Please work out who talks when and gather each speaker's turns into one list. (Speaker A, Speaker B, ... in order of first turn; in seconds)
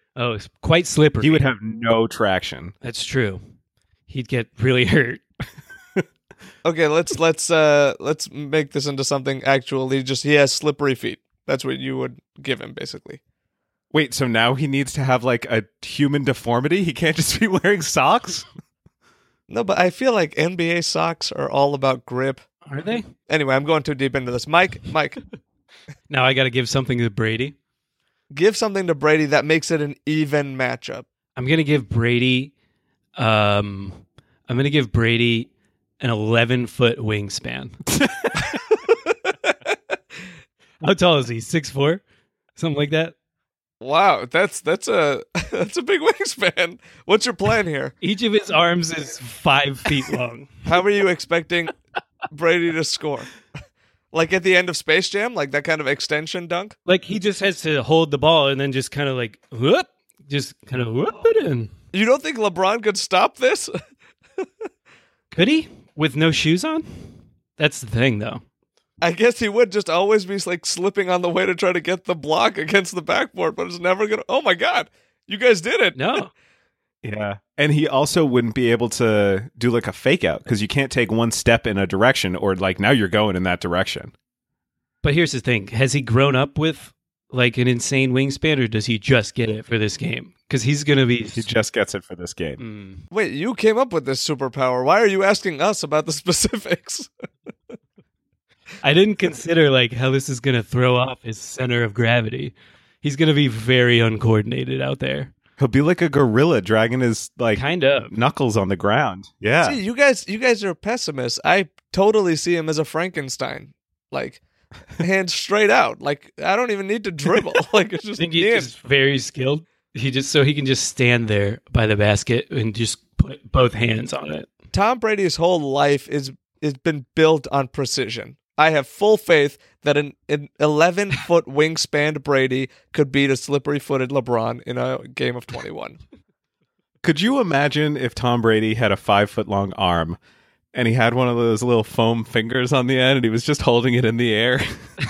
Speaker A: 0.2-1.4, 2.8-3.4, 4.1-5.2, 22.7-23.1, 26.1-27.6, 31.4-32.5, 33.2-37.8, 40.8-42.0, 42.6-43.1, 48.0-50.6, 56.9-61.7, 65.3-68.4, 75.9-76.3, 85.0-91.5, 92.6-93.0, 98.8-105.3, 107.5-108.1, 118.2-124.5
Speaker B: 1.2-2.8, 13.9-18.5, 37.9-38.6, 77.0-84.1, 91.3-92.6, 105.6-109.8, 137.0-140.2, 140.7-144.7
Speaker C: 6.6-13.2, 19.5-22.4, 23.3-25.2, 28.3-31.1, 38.9-39.6, 43.8-47.9, 50.7-51.7, 52.3-53.3, 54.1-56.8, 61.9-63.7, 69.0-76.1, 93.1-97.1, 109.6-114.4, 115.0-118.7, 124.7-136.0